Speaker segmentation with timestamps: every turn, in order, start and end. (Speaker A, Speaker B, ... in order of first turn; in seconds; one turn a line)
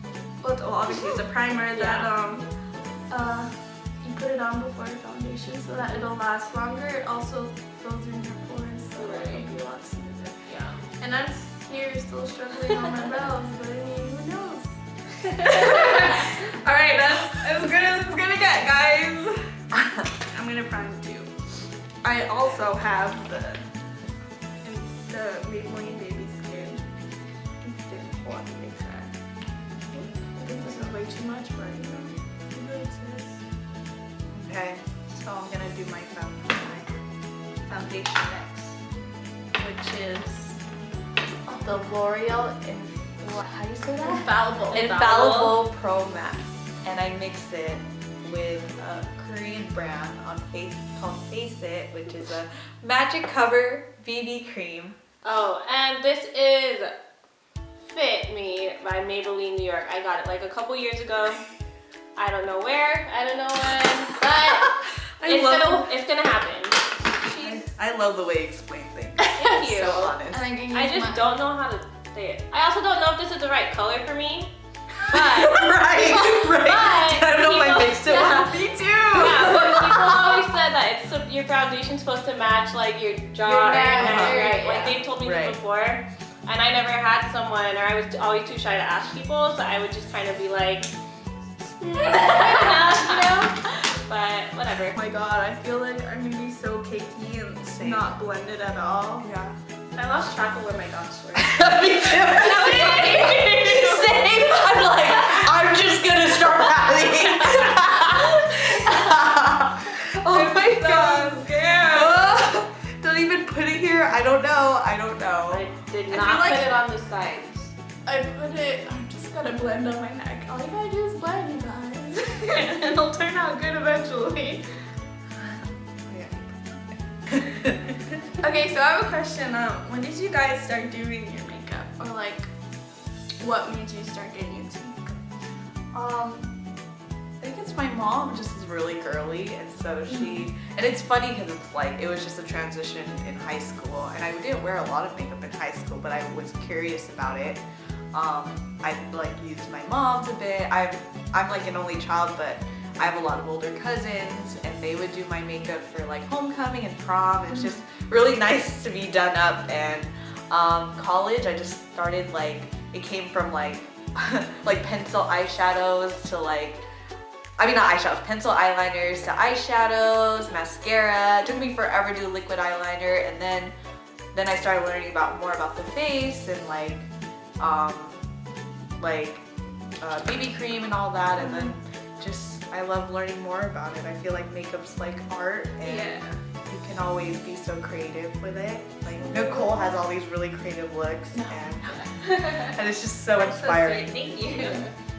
Speaker A: 0.4-2.4
Speaker B: 1.7-2.1
Speaker A: 3.1-3.5
Speaker A: 4.0-19.3
Speaker B: 9.0-9.5
Speaker B: 10.5-10.8
Speaker C: 19.7-20.0
Speaker A: 20.3-21.3
Speaker A: 22.0-23.6
Speaker B: 22.4-22.6
Speaker A: 24.6-26.8
Speaker A: 27.6-29.1
Speaker A: 29.9-33.4
Speaker C: 34.3-37.0
Speaker C: 37.7-38.8
Speaker C: 39.6-40.5
Speaker C: 41.5-55.0
Speaker A: 44.0-45.1
Speaker B: 44.7-45.5
Speaker B: 55.2-56.9
Speaker B: 57.8-61.4
Speaker B: 62.1-66.8
Speaker C: 65.2-65.9
Speaker A: 67.3-67.6
Speaker C: 67.3-70.4
Speaker B: 69.3-70.2
Speaker A: 70.3-71.3
Speaker B: 70.7-74.5
Speaker B: 75.1-78.6
Speaker C: 75.1-80.4
Speaker A: 78.2-79.3
Speaker B: 79.1-90.9
Speaker A: 83.4-85.0
Speaker C: 83.9-84.6
Speaker C: 85.2-85.6
Speaker B: 91.8-95.0
Speaker A: 92.1-92.4
Speaker A: 94.9-99.3
Speaker C: 97.7-98.1
Speaker C: 99.2-99.5
Speaker B: 99.9-104.0
Speaker C: 101.3-116.7
Speaker A: 103.3-104.1
Speaker A: 110.1-112.4
Speaker B: 115.5-117.7
Speaker A: 118.0-124.6
Speaker C: 126.1-126.6
Speaker C: 127.3-128.0
Speaker A: 128.4-132.5
Speaker A: 133.4-135.2
Speaker C: 135.9-136.5
Speaker C: 137.4-147.6
Speaker A: 140.1-140.4
Speaker C: 148.1-166.8
Speaker A: 157.5-157.8
Speaker C: 167.6-173.7
Speaker C: 174.3-178.2
Speaker C: 179.0-179.4
Speaker C: 180.0-194.8
Speaker A: 181.4-181.7
Speaker A: 185.8-186.4
Speaker A: 189.2-189.9
Speaker A: 191.3-192.8
Speaker A: 193.3-194.9